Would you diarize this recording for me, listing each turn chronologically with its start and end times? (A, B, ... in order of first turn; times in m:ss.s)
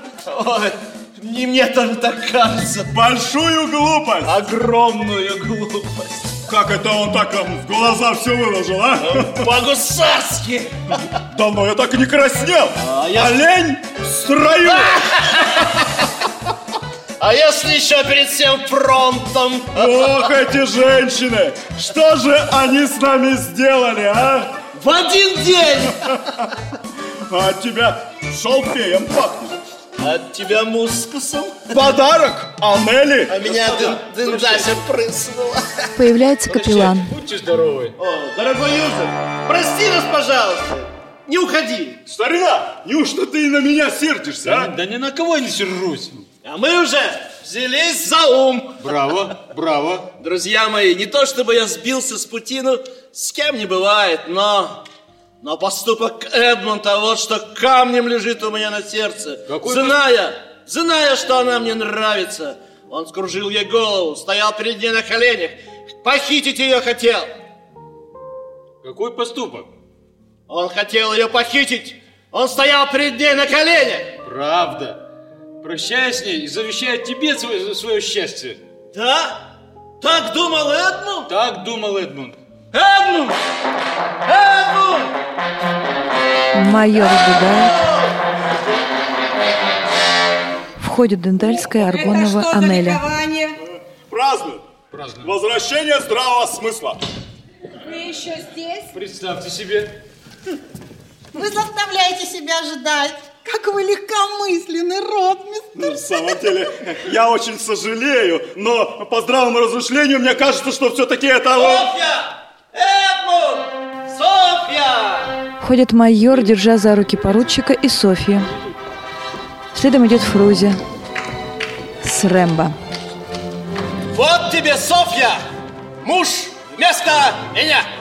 0:00.3-0:02.9 A
0:02.9-0:04.3 B
0:04.2-0:06.3 A
0:06.5-0:09.5 B
0:09.0-0:11.0 A
0:11.3-0:15.0 B
0:12.8-0:13.4 A
0:14.7-0:15.8 A
0:17.2-0:20.3 A
0:19.7-0:24.6 B
0:24.8-0:26.2 A
0:27.3-0:29.6 B
0:30.0-0:31.7 A
0:31.7-0:34.0 B
0:33.3-0:35.9 A
0:36.0-0:37.1 C
0:36.5-0:38.0 D
0:38.0-0:42.0 A
0:42.1-0:44.7 B
0:44.4-0:46.2 D
0:46.4-0:48.8 A
0:48.8-0:50.1 D
0:50.2-0:54.8 A
0:55.4-1:07.3 A
0:59.5-1:00.0 D
1:08.8-1:09.7 D
1:10.5-1:14.1 A
1:14.2-1:15.0 D
1:15.6-1:18.6 D
1:18.9-1:19.4 A
1:20.0-1:21.3 A
1:21.3-1:22.4 D
1:22.7-1:23.4 A
1:24.3-1:25.1 A
1:26.5-1:27.8 C
1:30.8-1:33.0 C
1:31.7-1:33.6 E
1:34.1-1:34.6 B
1:34.9-1:35.3 D
1:35.2-1:37.0 B
1:37.8-1:38.9 E
1:38.9-1:40.0 D
1:41.3-1:46.4 F
1:45.7-1:51.9 B
1:51.5-1:55.3 A
1:55.6-1:58.5 C
1:59.7-2:00.8 C
2:02.0-2:02.8 C
2:04.1-2:05.4 A
2:06.0-2:07.9 A